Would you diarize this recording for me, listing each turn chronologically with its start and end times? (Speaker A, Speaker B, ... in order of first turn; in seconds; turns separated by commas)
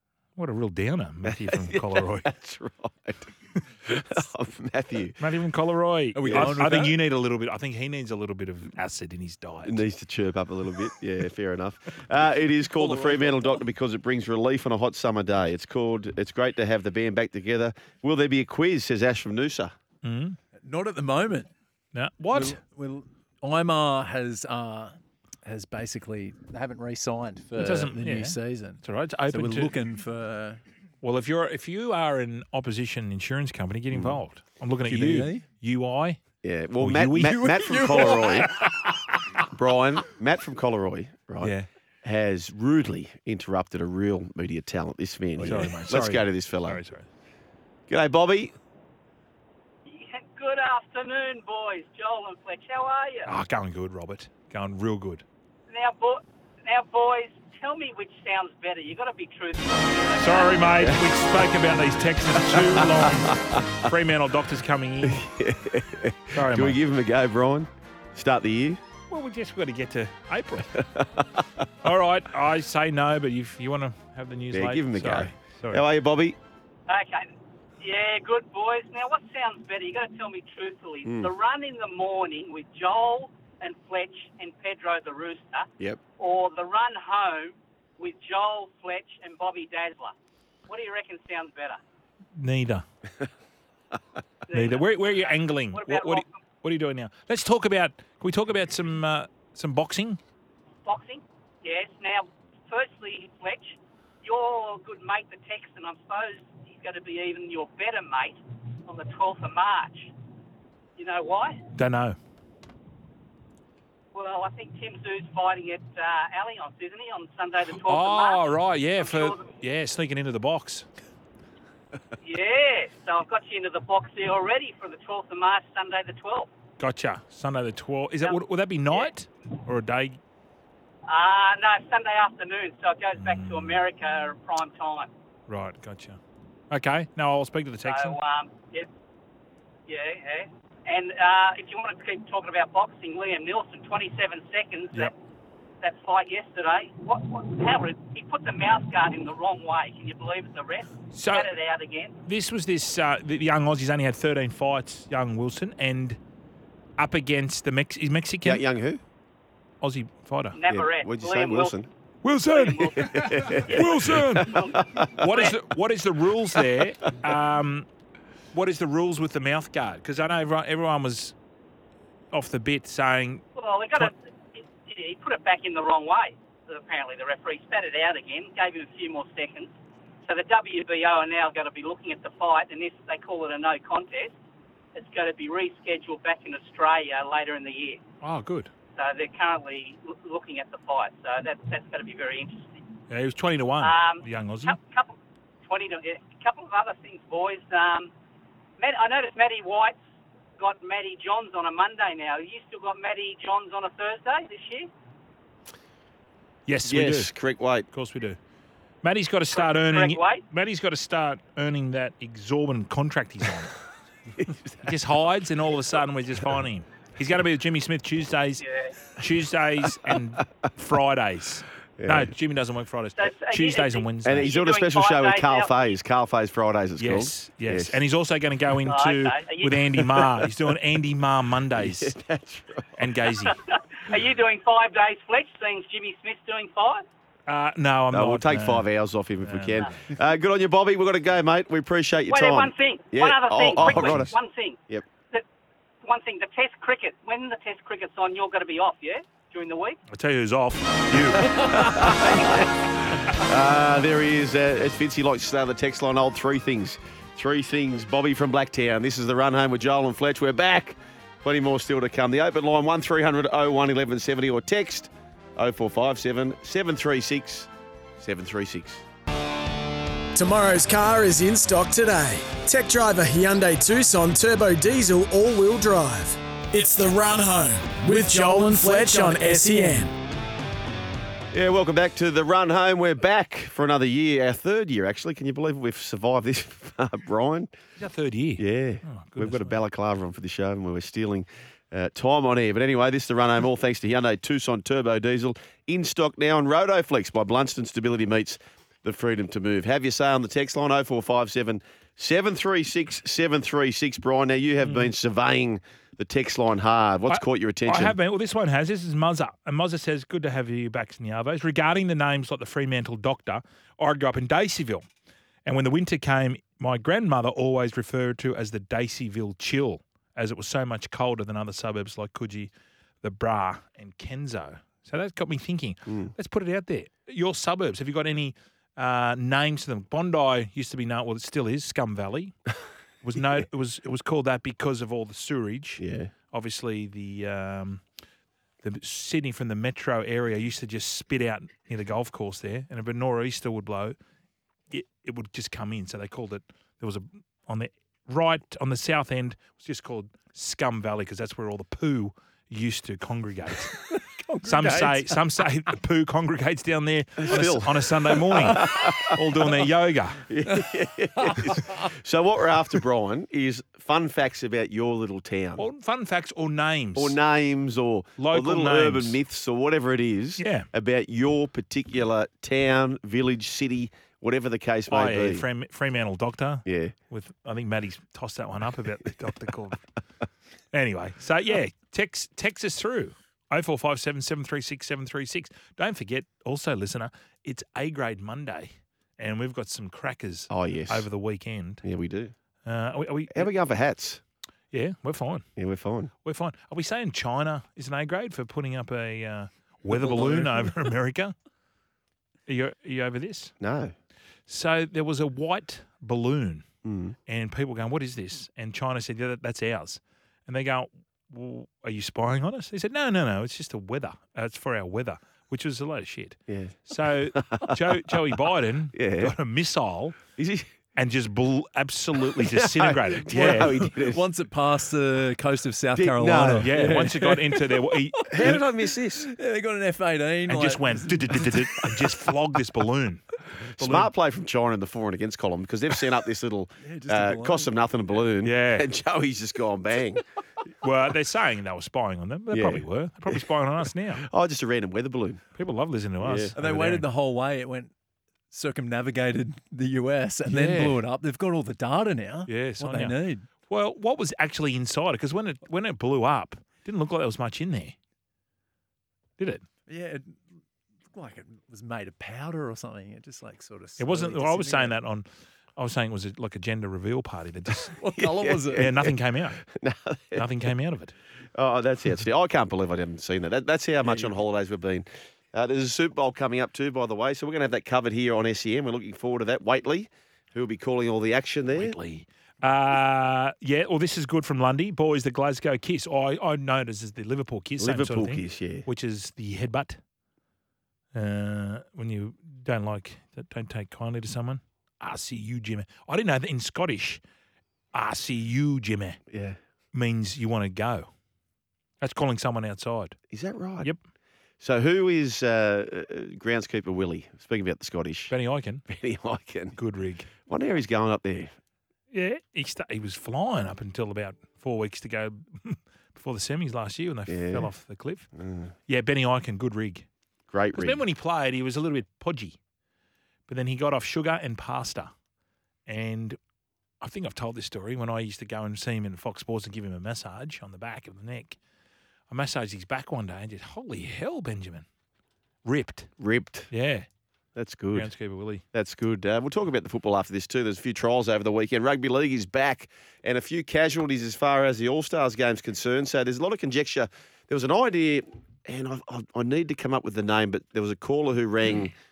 Speaker A: 0.4-2.3, Speaker B: 1.2-5.2, Speaker A: 5.2-9.8, Speaker C: 6.2-7.0, Speaker B: 6.2-6.6, Speaker B: 9.7-19.7, Speaker C: 12.8-13.5, Speaker A: 20.0-20.4, Speaker C: 20.6-21.5, Speaker A: 21.9-22.6, Speaker C: 22.3-30.6, Speaker A: 27.6-29.8, Speaker A: 31.0-36.2, Speaker B: 33.9-34.2, Speaker C: 34.9-35.4, Speaker B: 36.4-38.5, Speaker A: 36.8-39.3, Speaker C: 37.3-38.7, Speaker B: 39.5-46.8, Speaker A: 41.4-41.7, Speaker A: 45.4-47.1, Speaker B: 47.9-48.5, Speaker D: 49.9-53.3, Speaker A: 53.3-55.2, Speaker D: 55.7-60.7, Speaker A: 60.2-65.2, Speaker B: 60.8-61.1, Speaker B: 62.4-63.9, Speaker B: 65.0-68.8, Speaker A: 66.3-66.8, Speaker A: 69.1-70.8, Speaker B: 70.8-71.6, Speaker A: 71.8-75.8, Speaker B: 74.5-76.4, Speaker D: 76.9-90.2, Speaker B: 81.0-81.3, Speaker D: 90.7-91.8, Speaker A: 92.4-92.8, Speaker D: 94.5-96.3, Speaker A: 94.5-100.2, Speaker D: 100.8-110.1, Speaker D: 111.0-111.6, Speaker A: 111.8-112.2, Speaker D: 114.1-118.4, Speaker A: 117.7-120.9, Speaker D: 119.0-119.5, Speaker D: 122.2-126.5, Speaker A: 126.8-130.2, Speaker D: 131.1-135.1, Speaker A: 133.2-133.8, Speaker A: 135.5-136.2, Speaker A: 136.7-138.2, Speaker D: 137.8-138.9, Speaker D: 139.9-145.1, Speaker D: 145.8-152.2, Speaker A: 151.1-151.5, Speaker A: 152.3-156.2, Speaker A: 157.0-158.6, Speaker B: 158.4-159.0, Speaker A: 159.8-160.6, Speaker D: 160.6-161.8, Speaker B: 160.7-161.9, Speaker A: 162.2-167.9, Speaker D: 162.5-165.6, Speaker B: 162.9-165.3, Speaker A: 168.5-171.3, Speaker A: 172.3-173.4, Speaker D: 173.6-179.7, Speaker D: 180.2-184.3, Speaker D: 184.9-188.0, Speaker A: 188.2-188.7, Speaker D: 189.0-192.8, Speaker A: 193.1-194.8, Speaker D: 193.8-198.1, Speaker D: 198.8-200.0, Speaker D: 200.6-204.9, Speaker A: 206.7-207.3, Speaker B: 206.8-207.9, Speaker A: 207.9-208.4, Speaker A: 209.0-213.8, Speaker D: 209.6-210.4, Speaker B: 214.4-214.9, Speaker A: 214.8-218.6, Speaker D: 218.6-219.0, Speaker A: 219.2-224.5, Speaker B: 222.0-222.3, Speaker D: 223.2-225.7, Speaker B: 224.2-228.0, Speaker A: 227.0-232.2, Speaker D: 228.9-230.0, Speaker B: 231.8-233.1, Speaker A: 233.0-233.6, Speaker D: 233.5-237.1, Speaker A: 237.5-238.9, Speaker B: 238.1-244.3, Speaker A: 239.4-240.0, Speaker D: 242.3-244.8, Speaker A: 243.8-244.3, Speaker D: 246.0-250.0, Speaker A: 250.1-252.7, Speaker B: 251.1-269.0, Speaker E: 270.4-280.1, Speaker B: 281.5-287.7, Speaker A: 288.0-289.8, Speaker B: 288.6-308.2, Speaker A: 304.9-305.1, Speaker A: 307.3-315.1, Speaker A: 315.6-322.7, Speaker A: 323.2-332.6, Speaker A: 333.2-338.0, Speaker B: 336.0-336.3, Speaker A: 338.8-344.1, Speaker A: 344.9-360.5, Speaker C: 354.2-355.4, Speaker B: 357.4-359.9, Speaker B: 360.5-365.9, Speaker C: 361.4-362.0, Speaker A: 365.8-367.4, Speaker B: 367.2-375.6, Speaker A: 368.4-369.4, Speaker A: 370.6-370.9, Speaker A: 375.1-380.0, Speaker B: 376.9-377.2, Speaker A: 380.9-392.0, Speaker B: 390.7-391.3, Speaker B: 392.0-392.5, Speaker A: 392.9-393.7, Speaker B: 393.5-394.4, Speaker A: 394.9-395.7, Speaker B: 395.8-396.3, Speaker A: 396.4-401.5, Speaker B: 400.1-400.9, Speaker A: 402.7-403.7, Speaker B: 403.8-404.1, Speaker A: 404.7-406.9, Speaker B: 407.1-407.4, Speaker A: 407.5-420.4, Speaker B: 416.7-417.0, Speaker B: 417.5-418.4, Speaker B: 419.1-419.6, Speaker B: 420.6-420.9, Speaker A: 421.2-424.1, Speaker B: 422.4-424.4, Speaker C: 423.5-428.8, Speaker B: 426.1-427.1, Speaker A: 426.8-428.8, Speaker B: 428.5-429.5, Speaker C: 429.4-432.5, Speaker A: 430.7-433.4, Speaker B: 433.8-440.4, Speaker A: 434.0-434.3, Speaker C: 437.0-437.9, Speaker A: 438.6-439.1, Speaker A: 441.0-444.5, Speaker B: 442.7-443.6, Speaker B: 444.4-445.6, Speaker A: 445.8-447.3, Speaker B: 446.4-446.7, Speaker C: 446.8-448.1, Speaker C: 448.7-453.7, Speaker A: 450.7-451.2, Speaker A: 452.7-458.2, Speaker A: 459.6-459.9, Speaker C: 460.1-460.6, Speaker C: 461.3-465.1, Speaker A: 464.2-465.5, Speaker A: 466.0-468.2, Speaker C: 468.2-469.1, Speaker B: 468.4-470.7, Speaker A: 468.9-469.8, Speaker A: 470.6-471.4, Speaker B: 471.8-482.2, Speaker A: 482.0-490.2, Speaker B: 488.0-489.1, Speaker A: 491.3-497.4, Speaker A: 498.1-499.4, Speaker B: 499.5-499.8, Speaker A: 500.1-501.3, Speaker A: 502.2-503.4, Speaker B: 503.5-504.1, Speaker B: 504.8-508.5, Speaker A: 508.5-509.1, Speaker B: 509.1-510.0, Speaker A: 510.0-510.5, Speaker B: 510.7-511.7, Speaker A: 512.3-518.5, Speaker B: 517.5-517.9, Speaker B: 518.6-518.9, Speaker A: 519.1-520.3, Speaker B: 520.7-521.2, Speaker A: 520.9-522.8, Speaker A: 523.7-525.3, Speaker A: 526.1-526.6, Speaker A: 527.2-531.8, Speaker A: 532.5-535.0, Speaker A: 535.9-536.3, Speaker B: 536.4-536.9, Speaker A: 536.9-537.3, Speaker B: 537.8-538.3, Speaker A: 538.1-538.8, Speaker B: 538.9-552.1